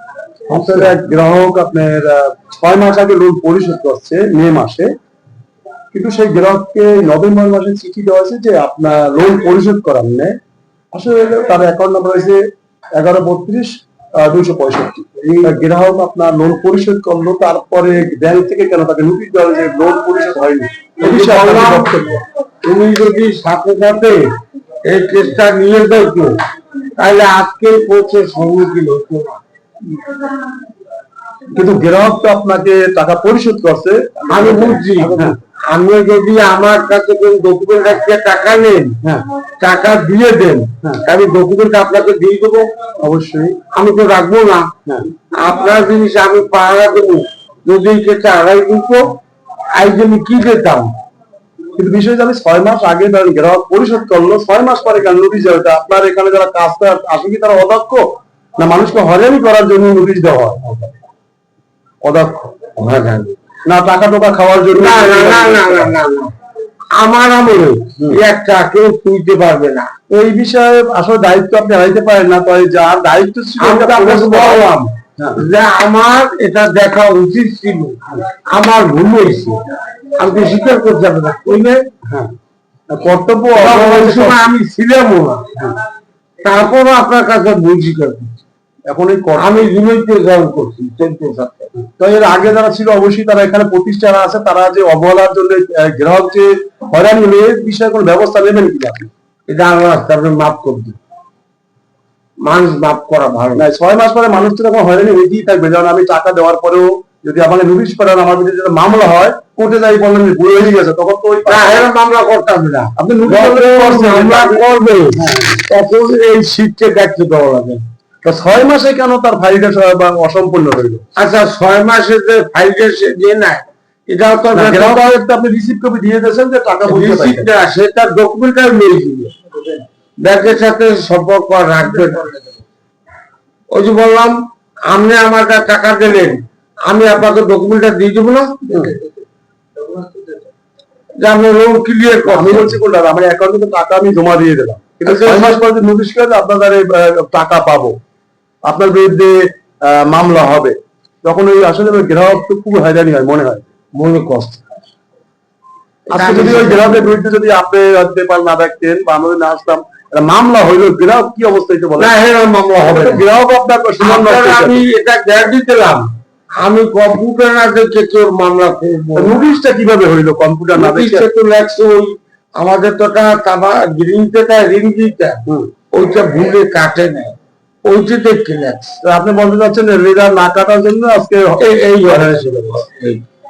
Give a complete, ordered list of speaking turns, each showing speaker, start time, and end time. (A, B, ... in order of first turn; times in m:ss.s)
0:00.5-0:04.9 A
0:05.9-0:10.4 A
0:10.9-0:12.4 A
0:13.0-0:22.2 A
0:15.2-0:15.5 B
0:21.0-0:22.1 B
0:22.6-0:24.3 B
0:24.9-0:26.4 B
0:27.0-0:29.4 B
0:31.6-0:35.4 A
0:34.3-0:39.0 B
0:39.6-0:42.7 B
0:43.0-0:43.6 A
0:43.7-0:44.7 B
0:45.4-0:49.2 B
0:49.8-0:50.9 B
0:51.8-0:58.0 A
0:58.6-1:00.9 A
1:02.0-1:02.5 A
1:02.8-1:03.4 B
1:03.7-1:05.9 A
1:04.7-1:06.3 B
1:07.0-1:09.9 B
1:10.1-1:15.4 A
1:13.6-1:19.6 B
1:20.2-1:21.8 B
1:22.1-1:22.3 A
1:22.9-1:24.4 A
1:23.5-1:25.5 B
1:26.4-1:28.4 B
1:28.9-1:29.5 A
1:29.4-1:31.7 B
1:31.8-1:39.1 A
1:39.5-1:41.0 B
1:42.4-1:43.7 B
1:43.6-1:51.9 A
1:51.4-1:57.8 B
1:53.0-1:55.6 A
1:58.2-2:01.0 A
2:01.2-2:05.1 B
2:04.5-2:07.5 A
2:06.9-2:09.4 B
2:10.2-2:12.4 B
2:13.7-2:19.1 B
2:21.2-2:22.8 B
2:22.3-2:28.0 A
2:25.0-2:25.6 B
2:28.7-2:33.7 A
2:33.9-2:34.7 B
2:36.1-2:37.2 B
2:36.1-2:42.1 A
2:42.0-2:43.2 B
2:42.8-2:44.8 A
2:44.0-2:49.4 B
2:49.2-2:51.3 A
2:50.7-2:59.0 B
2:59.0-3:02.5 A
3:01.6-3:03.2 B